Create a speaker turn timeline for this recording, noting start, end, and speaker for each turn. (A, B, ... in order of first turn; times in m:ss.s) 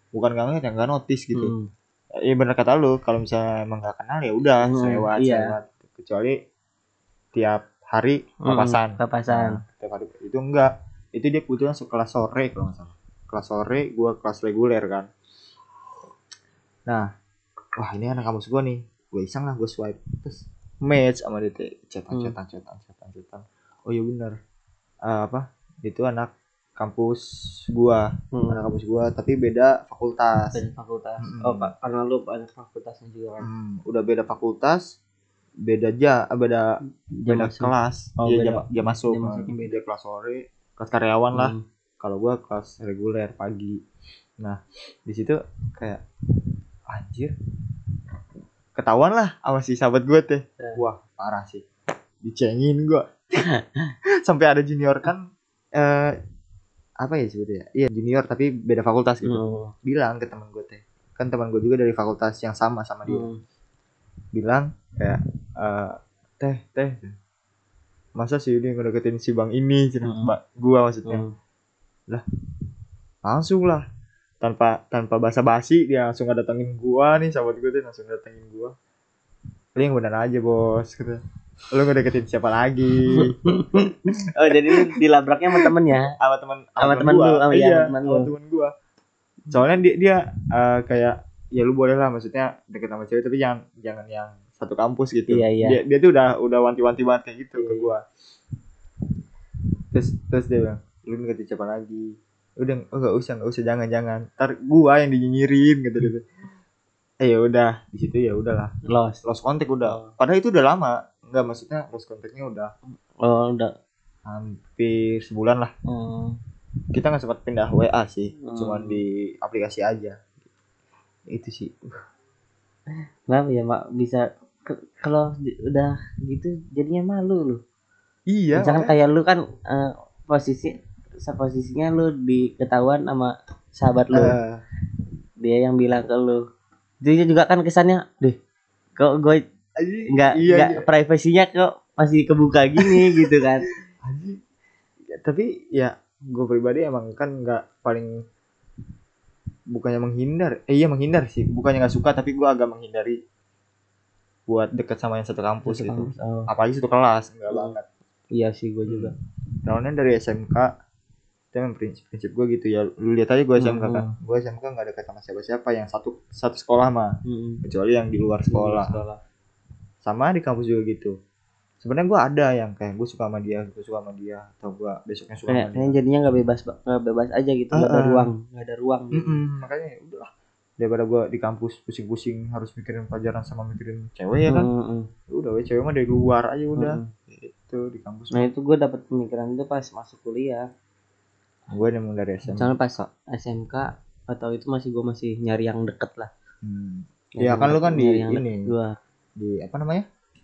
0:00.1-0:01.5 A
0:01.4-0:01.7 B
0:02.2-0:06.4 A
0:04.6-0:05.5 B
0:07.3-0:15.1 A
0:08.4-0:09.6 B
0:17.8-0:24.4 A
0:25.1-0:30.6 A
0:28.3-0:28.7 B
0:30.5-0:33.5 B
0:31.2-0:31.7 A
0:33.4-0:34.8 A
0:35.7-0:36.8 A
0:37.2-0:39.7 B
0:37.3-0:43.8 A
0:41.3-0:41.6 B
0:44.4-0:46.0 A
0:46.9-0:47.3 A
0:48.8-0:51.6 A
0:52.2-0:53.1 A
0:53.4-0:53.6 B
0:54.2-0:56.2 A
0:57.0-1:03.3 A
0:59.2-0:59.7 B
1:03.1-1:03.4 B
1:04.3-1:07.2 A
1:08.2-1:11.2 A
1:10.0-1:10.3 B
1:11.1-1:11.3 B
1:13.3-1:13.8 A
1:14.4-1:18.8 A
1:19.8-1:23.9 A
1:23.1-1:26.1 B
1:24.7-1:25.0 A
1:25.6-1:28.7 A
1:26.8-1:28.3 B
1:29.5-1:38.0 A
1:35.3-1:35.8 B
1:37.6-1:37.9 B
1:39.9-1:46.2 A
1:47.2-1:48.7 A
1:48.8-1:49.2 B
1:49.2-1:52.7 A
1:49.8-1:50.1 B
1:53.2-1:53.7 B
1:54.3-1:55.7 A
1:55.9-1:56.4 B
1:56.9-2:00.2 A
1:58.4-1:59.0 B
2:01.3-2:01.9 A
2:03.3-2:07.6 B
2:08.3-2:08.9 A
2:08.6-2:14.4 B
2:14.1-2:14.6 A
2:15.4-2:16.4 B
2:17.0-2:18.4 B
2:19.0-2:19.4 B
2:19.8-2:20.9 A
2:20.1-2:23.7 B
2:22.8-2:23.4 A
2:24.0-2:24.4 A
2:25.1-2:28.2 A
2:29.7-2:33.2 A
2:34.5-2:37.8 A
2:35.6-2:36.5 B
2:37.5-2:37.8 B
2:38.3-2:39.1 B
2:39.7-2:40.7 A
2:41.5-2:49.0 A
2:43.6-2:44.1 B
2:47.2-2:47.6 B
2:48.5-2:49.2 B
2:50.0-2:51.1 A
2:51.8-2:56.0 A
2:55.5-2:59.4 B
2:57.7-2:58.3 A
2:59.1-3:04.7 A
3:04.5-3:05.1 B
3:05.3-3:08.5 A
3:06.8-3:07.1 B
3:08.3-3:10.7 B
3:11.7-3:13.1 A
3:12.5-3:16.3 B
3:16.6-3:18.7 A
3:17.4-3:19.0 B
3:19.4-3:20.1 A